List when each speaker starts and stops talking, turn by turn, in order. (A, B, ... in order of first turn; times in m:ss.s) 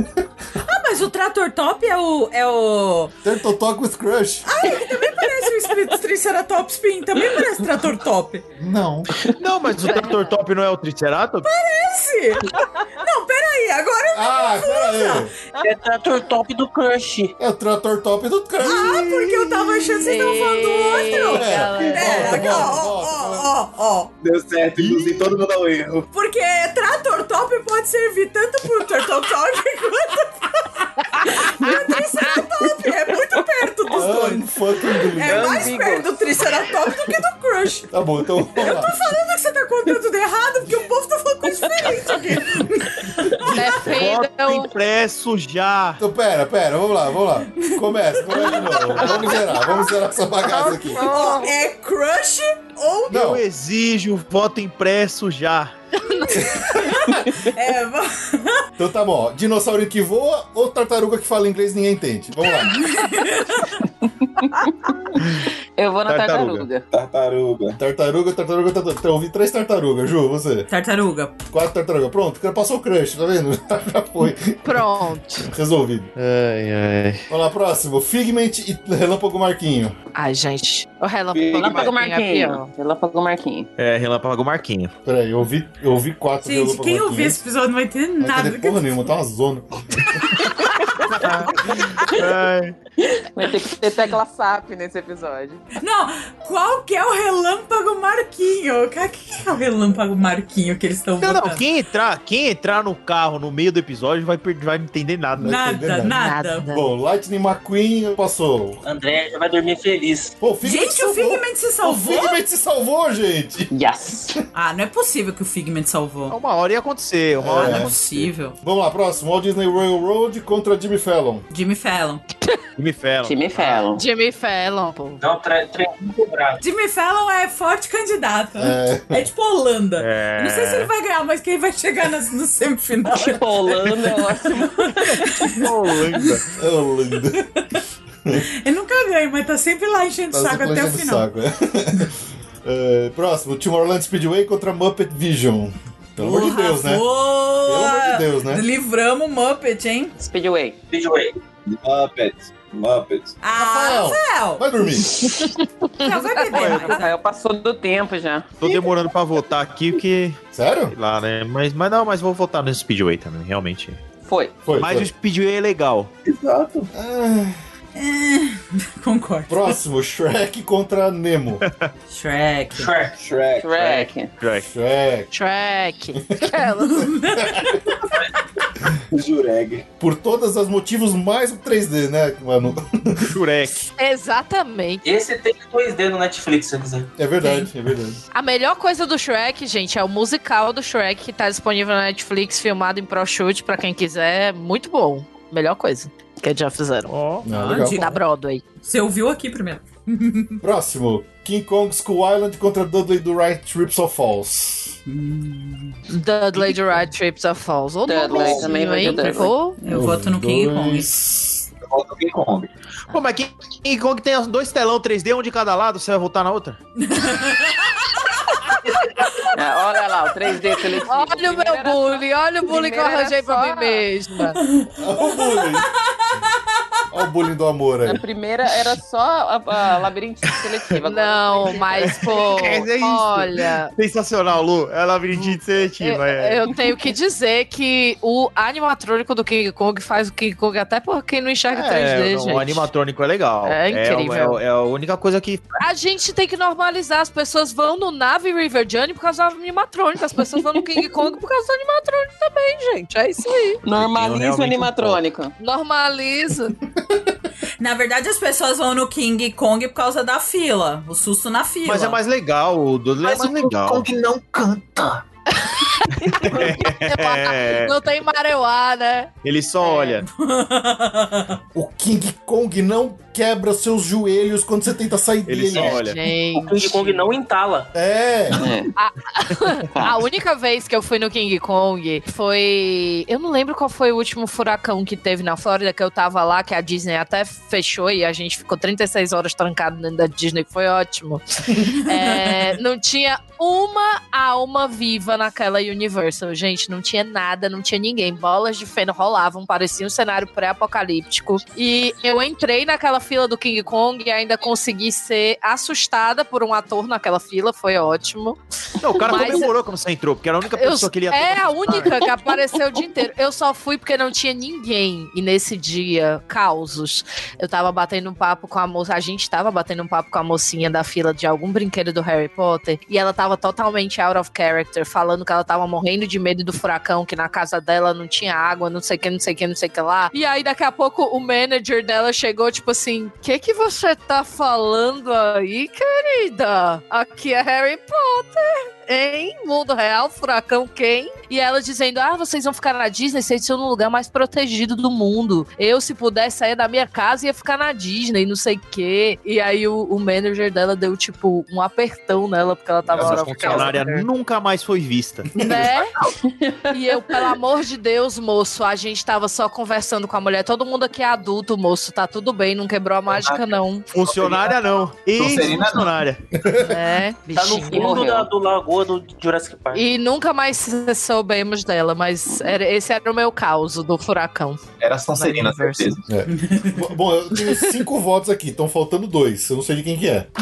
0:00.6-0:03.1 A
0:03.2-0:04.5 B
0:04.5-0:08.4 A
0:08.6-0:09.1 B
0:09.4-0:11.5 C
0:09.8-0:10.3 D
0:11.4-0:15.3 A
0:14.2-0:15.3 B
0:15.6-0:17.4 E
0:17.4-0:19.5 B
0:18.6-0:24.1 A
0:20.0-0:22.8 D
0:21.1-0:23.5 B
0:24.2-0:26.1 F
0:24.8-0:25.4 B
0:26.1-0:34.5 A
0:33.9-0:35.8 B
0:35.2-0:37.9 A
0:35.2-0:36.4 G
0:37.9-0:38.9 B
0:38.5-0:43.3 A
0:43.2-0:43.9 B
0:43.5-0:44.7 D
0:43.8-0:46.0 C
0:46.0-0:51.0 B
0:47.6-0:49.9 A
0:50.6-0:53.2 A
0:51.0-0:51.5 G
0:53.1-0:53.4 B
0:53.1-0:55.7 C
0:56.1-0:56.4 D
0:56.3-0:58.6 A
0:56.3-0:57.3 B
0:58.8-1:02.8 B
1:02.6-1:03.8 A
1:04.4-1:05.2 G
1:05.8-1:06.9 G
1:06.0-1:06.7 C
1:06.9-1:07.8 F
1:07.8-1:10.7 B
1:10.7-1:11.3 A
1:11.5-1:14.9 B
1:14.6-1:15.5 D
1:15.4-1:16.1 B
1:16.2-1:17.3 C
1:17.3-1:19.9 B
1:20.2-1:22.7 D
1:21.3-1:22.0 F
1:21.6-1:23.7 G
1:23.8-1:24.9 C
1:25.0-1:27.4 B
1:26.4-1:29.1 A
1:28.2-1:30.4 B
1:31.1-1:32.8 C
1:33.0-1:35.6 G
1:35.8-1:41.6 A
1:41.2-1:45.6 C
1:45.4-1:48.8 B
1:45.4-1:46.6 A
1:46.1-1:46.9 D
1:48.8-1:50.4 E
1:50.4-1:53.7 B
1:50.6-1:52.4 A
1:53.7-1:54.4 G
1:54.5-1:56.4 A
1:56.3-1:58.3 C
1:57.4-1:57.9 B
1:57.6-1:58.6 A
1:58.6-2:01.4 B
2:01.5-2:02.2 A
2:02.8-2:03.8 C
2:03.2-2:04.0 G
2:04.0-2:05.2 D
2:05.2-2:06.6 E
2:06.6-2:16.4 A
2:08.6-2:09.3 B
2:10.0-2:10.9 C
2:13.1-2:15.0 G
2:15.0-2:16.5 C
2:16.6-2:17.5 B
2:18.4-2:21.3 A
2:20.3-2:27.0 B
2:26.2-2:30.1 A
2:27.6-2:28.6 B
2:30.2-2:30.8 G
2:30.9-2:31.4 E
2:31.7-2:33.4 F
2:33.4-2:34.6 A
2:33.6-2:35.2 B
2:35.1-2:36.3 D
2:36.0-2:37.0 A
2:36.5-2:37.0 C
2:36.5-2:38.8 G
2:38.6-2:44.0 C
2:40.5-2:41.0 B
2:44.2-2:44.5 G
2:44.6-2:45.1 B
2:44.8-2:46.1 C
2:46.2-2:46.9 F
2:46.9-2:47.6 B
2:48.0-2:49.8 A
2:49.5-2:51.6 B
2:51.6-2:51.9 C
2:52.1-2:52.9 A
2:52.7-2:53.1 E
2:53.2-2:54.1 F
2:53.6-2:54.3 G
2:53.8-2:54.7 C
2:54.7-2:55.3 B
2:55.3-2:57.1 D
2:56.8-2:58.0 A
2:57.4-2:57.8 B
2:59.1-2:59.9 F
3:00.0-3:03.3 B
3:03.2-3:03.9 C
3:03.8-3:05.0 D
3:05.0-3:07.1 E
3:07.2-3:08.2 B
3:08.3-3:17.1 D
3:17.1-3:17.5 C
3:17.4-3:18.0 B
3:17.5-3:18.2 A
3:17.9-3:18.6 D
3:18.8-3:20.6 A
3:20.6-3:25.0 B
3:25.1-3:26.0 A
3:26.1-3:29.8 D
3:28.1-3:29.5 G
3:29.8-3:31.1 A
3:29.9-3:31.7 B
3:31.9-3:32.7 F
3:33.1-3:36.8 C
3:37.0-3:38.2 A
3:39.5-3:44.0 G
3:40.9-3:44.6 D
3:44.6-3:46.6 A
3:45.0-3:45.9 B
3:47.1-3:48.2 B
3:48.0-3:52.1 G
3:51.0-3:53.9 D
3:51.9-3:56.8 C
3:56.0-4:02.9 D
4:01.7-4:05.8 C
4:03.6-4:04.6 D
4:05.8-4:13.8 D
4:13.8-4:15.5 G
4:13.9-4:15.2 C
4:15.6-4:16.7 D
4:17.8-4:22.2 A
4:21.8-4:24.1 C
4:23.2-4:25.2 F
4:25.6-4:30.2 D
4:26.4-4:28.0 C
4:29.4-4:30.3 C
4:30.3-4:31.6 A
4:31.8-4:36.0 B
4:35.5-4:36.2 C
4:35.7-4:37.9 E
4:35.9-4:37.2 D
4:37.9-4:38.6 B
4:38.6-4:38.9 G
4:39.0-5:08.6 D
4:39.9-4:40.2 G
4:52.3-4:52.6 A
5:09.0-5:12.3 C
5:09.2-5:09.7 D
5:09.2-5:09.6 G
5:10.7-5:54.3 D
5:53.1-5:55.5 C
5:53.1-5:53.8 F
5:55.6-5:56.1 D
5:55.6-5:56.3 F
5:56.4-5:56.9 G
5:56.9-6:04.1 D
6:03.3-6:04.8 F
6:04.1-6:06.4 C
6:05.3-6:06.1 F
6:06.5-6:07.0 B
6:06.8-6:08.2 D
6:07.5-6:10.0 E
6:07.9-6:08.5 G
6:09.9-6:14.8 D
6:15.0-6:16.3 F
6:15.4-6:16.1 D
6:16.3-6:20.5 B
6:16.5-6:17.1 A
6:17.7-6:18.0 D